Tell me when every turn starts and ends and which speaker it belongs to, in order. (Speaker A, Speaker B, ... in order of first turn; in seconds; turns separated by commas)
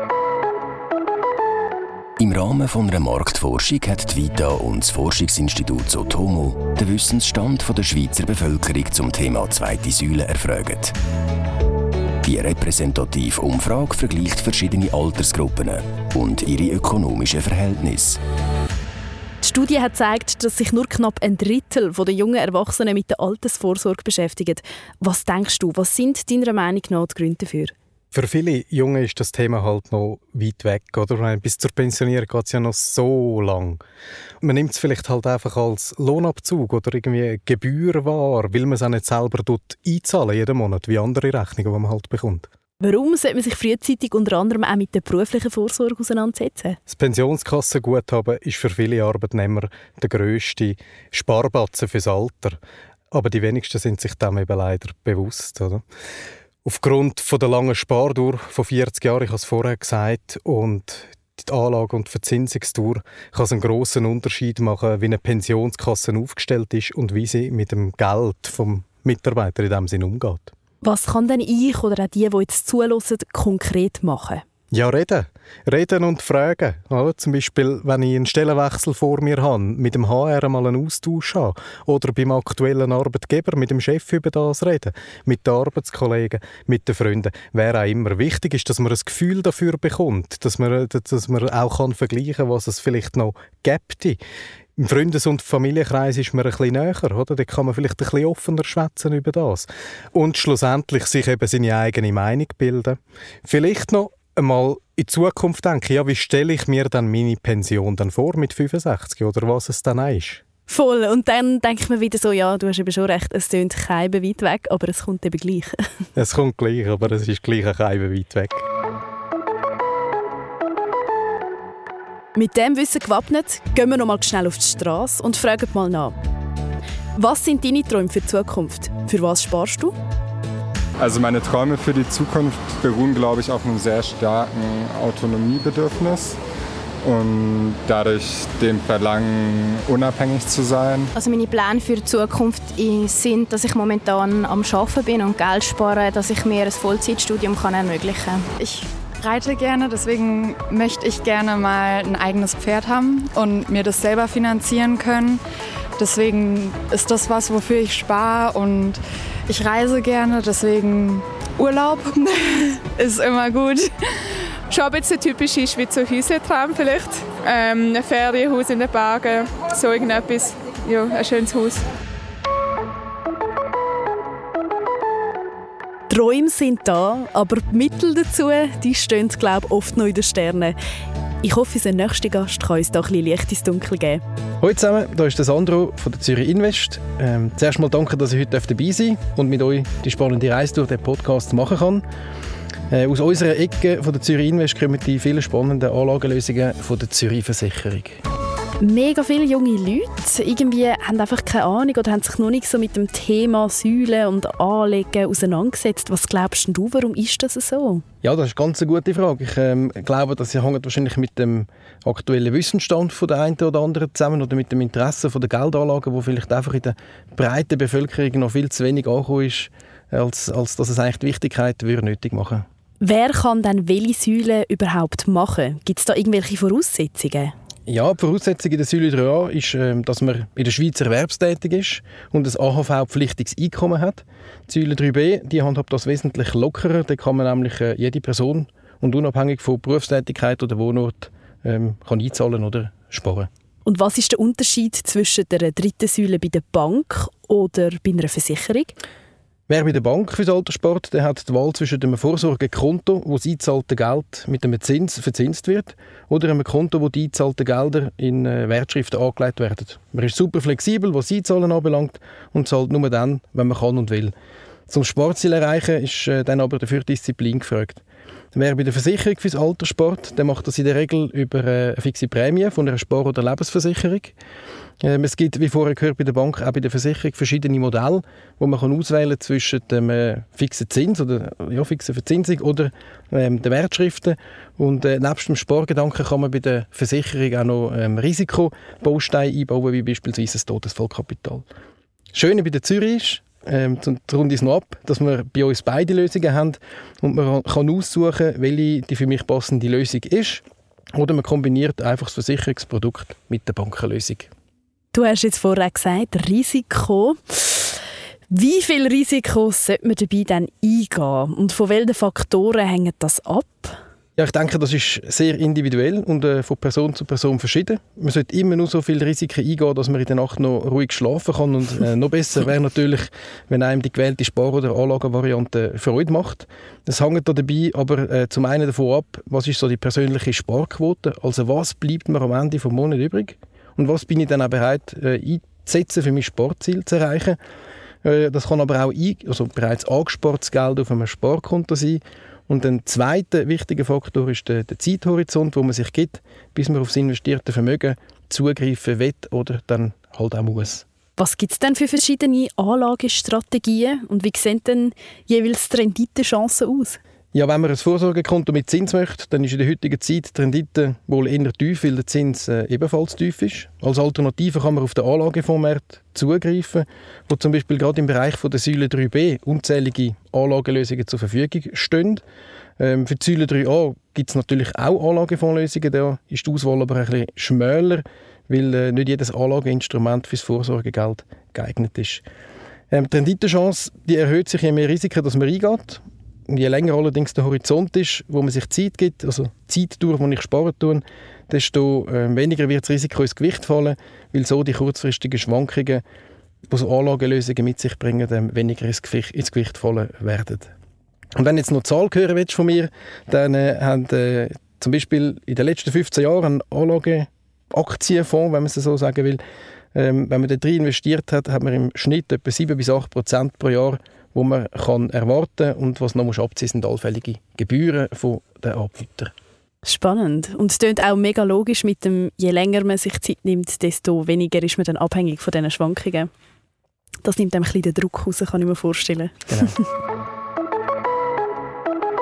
Speaker A: 2.2-10.9, Speaker A: 12.2-18.2, Speaker B: 19.4-27.7, Speaker C: 28.1-33.8, Speaker C: 34.4-42.5, Speaker B: 42.8-46.8, Speaker C: 46.9-52.6, Speaker C: 53.1-55.8, Speaker C: 56.6-70.5, Speaker B: 70.8-74.4, Speaker C: 74.7-94.2, Speaker C: 94.8-110.4, Speaker B: 110.7-115.7, Speaker C: 116.1-118.6, Speaker B: 122.3-126.2, Speaker B: 127.2-129.9, Speaker D: 131.0-136.4, Speaker D: 137.0-141.1, Speaker E: 141.1-148.5, Speaker F: 148.6-155.4, Speaker F: 156.0-161.3, Speaker G: 161.6-162.3, Speaker F: 162.9-163.8, Speaker G: 164.7-171.8, Speaker B: 176.1-180.8, Speaker B: 181.4-184.2, Speaker H: 184.6-192.0, Speaker H: 192.9-198.2, Speaker B: 198.8-208.0, Speaker H: 208.2-222.7, Speaker B: 223.0-227.5, Speaker H: 227.9-243.5, Speaker B: 243.8-248.9, Speaker H: 249.7-264.3, Speaker H: 264.9-268.0, Speaker H: 268.5-274.3, Speaker H: 275.0-291.6, Speaker H: 292.3-300.6, Speaker H: 301.1-304.5, Speaker B: 305.1-308.0, Speaker B: 308.5-314.0, Speaker H: 314.4-337.6, Speaker H: 338.2-351.0, Speaker B: 351.4-357.2, Speaker H: 357.5-372.4, Speaker H: 373.0-382.4, Speaker H: 383.1-396.2, Speaker H: 396.9-400.9, Speaker H: 401.6-409.6, Speaker H: 410.1-419.5, Speaker B: 420.0-426.5, Speaker B: 427.4-430.0